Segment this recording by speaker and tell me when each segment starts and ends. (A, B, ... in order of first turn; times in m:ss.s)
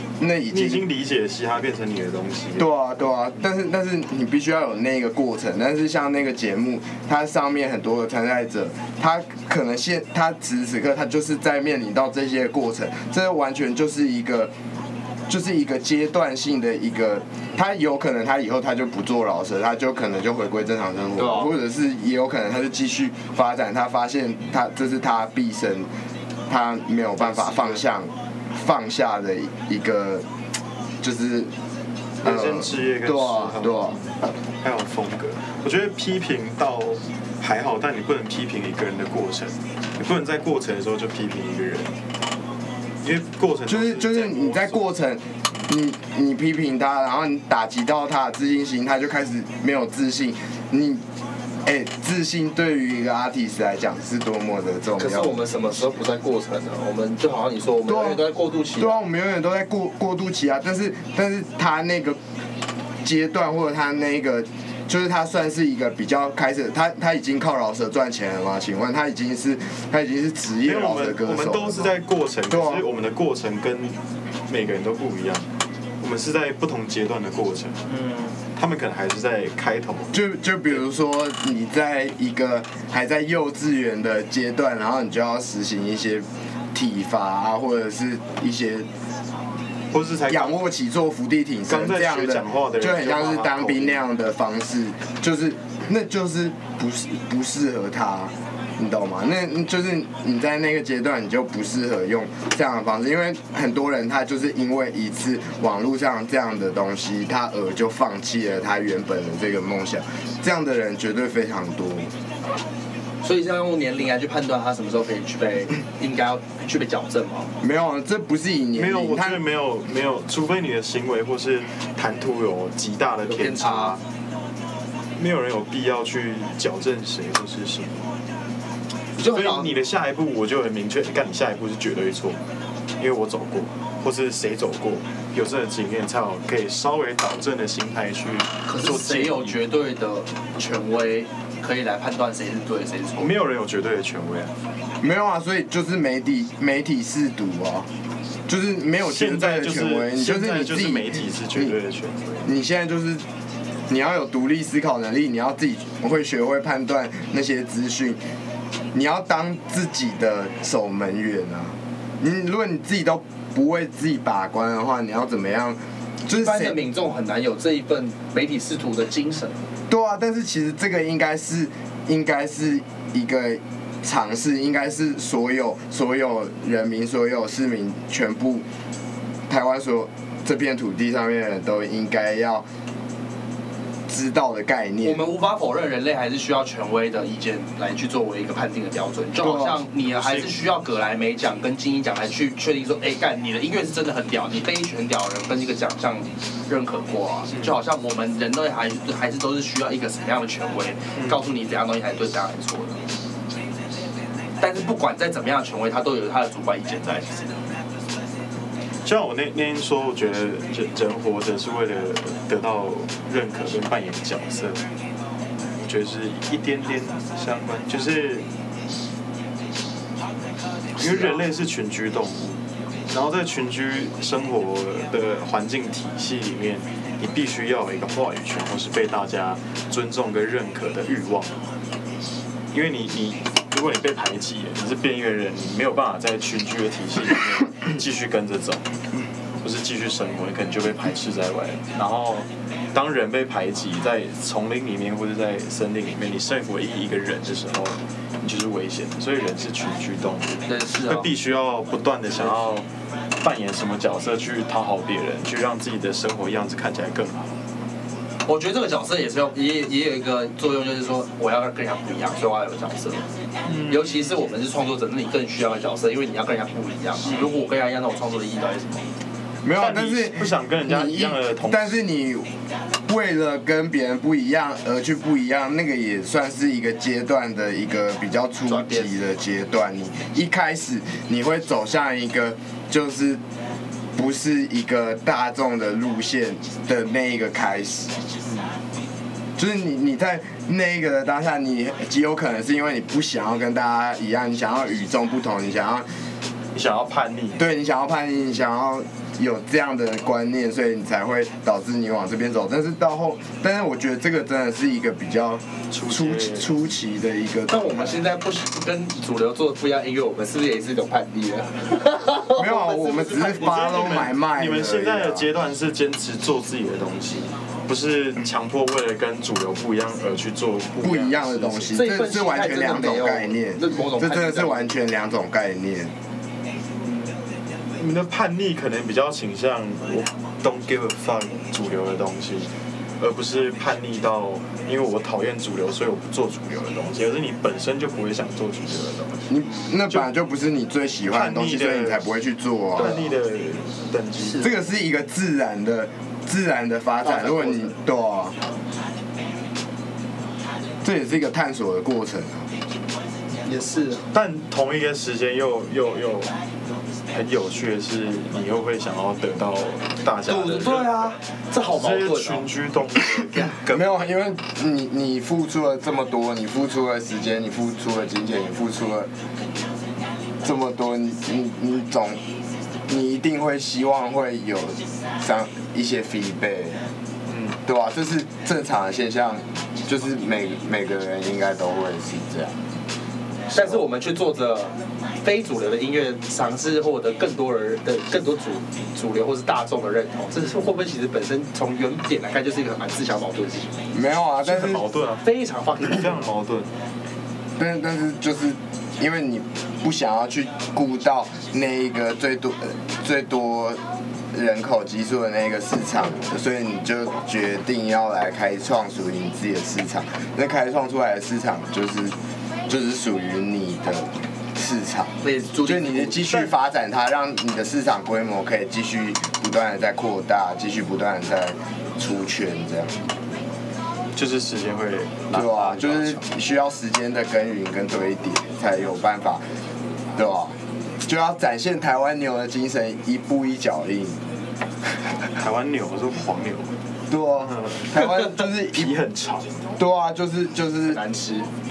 0:00.2-0:00.9 A
0:00.5-0:02.7 B
0:02.6-0:14.5 A
0:15.3-0:25.9 A
0:21.2-0:21.5 C
0:26.5-0:30.3 A
0:27.2-0:27.8 B
0:31.0-0:31.5 A
0:32.2-0:34.1 B
0:32.2-0:34.0 A
0:34.6-0:41.9 B
0:43.0-0:44.9 B
0:43.7-0:51.0 A
0:51.6-0:55.5 A
0:55.0-0:59.0 C
0:57.9-1:02.2 A
1:03.0-1:12.0 A
1:10.6-1:15.5 B
1:12.5-1:12.8 A
1:16.0-1:17.8 B
1:17.9-1:18.4 C
1:18.6-1:20.2 B
1:20.1-1:28.9 A
1:29.9-1:30.7 B
1:30.3-1:52.1 A
1:31.7-1:34.0 B
1:53.2-1:57.5 C
1:57.6-1:59.4 A
1:58.8-2:04.0 B
2:03.3-2:04.0 C
2:05.2-2:08.1 B
2:09.2-2:09.7 C
2:09.2-2:12.4 B
2:13.0-2:19.6 B
2:18.7-2:23.3 C
2:23.2-2:24.5 B
2:25.0-2:27.9 A
2:28.5-2:31.8 A
2:29.0-2:32.5 B
2:32.4-2:33.2 A
2:33.9-2:38.2 A
2:38.9-2:46.8 A
2:46.3-2:49.6 C
2:49.9-2:58.7 A
2:59.5-3:02.6 A
3:04.1-3:05.2 A
3:05.0-3:23.0 C
3:09.4-3:09.8 A
3:10.0-3:10.6 B
3:21.2-3:21.4 B
3:24.6-3:27.6 C
3:29.0-3:34.8 B
3:35.8-3:38.5 B
3:41.0-3:41.4 C
3:41.0-3:51.6 B
3:52.7-3:58.8 B
3:59.6-4:12.9 B
4:10.7-4:11.3 C
4:13.4-4:17.6 B
4:18.5-4:23.3 C
4:23.6-4:24.5 B
4:23.9-4:29.1 C
4:29.6-4:32.5 A
4:29.8-4:32.0 B
4:33.1-4:43.4 A
4:38.7-4:39.2 C
4:44.2-4:48.1 A
4:48.5-4:48.7 B
4:49.6-4:56.1 A
4:56.7-4:57.6 B
4:57.6-5:08.2 A
5:05.9-5:06.9 B
5:07.7-5:14.0 C
5:12.6-5:15.5 A
5:13.5-5:22.0 B
5:21.0-5:26.1 A
5:21.9-5:25.0 C
5:27.0-5:27.4 B
5:28.0-5:39.5 B
5:39.5-5:43.3 A
5:41.3-5:42.2 B
5:43.0-5:44.7 B
5:44.4-5:44.7 C
5:44.6-5:48.6 A
5:47.3-5:47.9 B
5:51.0-5:52.7 A
5:53.6-5:54.2 C
5:54.3-5:56.5 B
5:57.3-6:04.2 B
6:00.5-6:02.7 C
6:03.9-6:09.3 A
6:10.6-6:12.4 A
6:13.1-6:17.0 A
6:17.5-6:17.8 B
6:17.8-6:22.8 A
6:23.7-6:34.0 C
6:34.1-6:35.0 A
6:34.6-6:35.5 B
6:35.4-6:36.3 C
6:36.0-6:36.9 B
6:37.8-6:44.0 A
6:44.5-6:52.4 A
6:52.9-7:03.2 A
6:55.4-6:56.5 C
6:56.4-6:56.7 B
7:03.1-7:03.3 B
7:04.4-7:06.5 B
7:05.5-7:09.6 A
7:10.4-7:14.4 A
7:15.6-7:17.0 B
7:17.3-7:19.1 A
7:17.6-7:19.7 B
7:20.0-7:21.2 A
7:21.0-7:21.7 C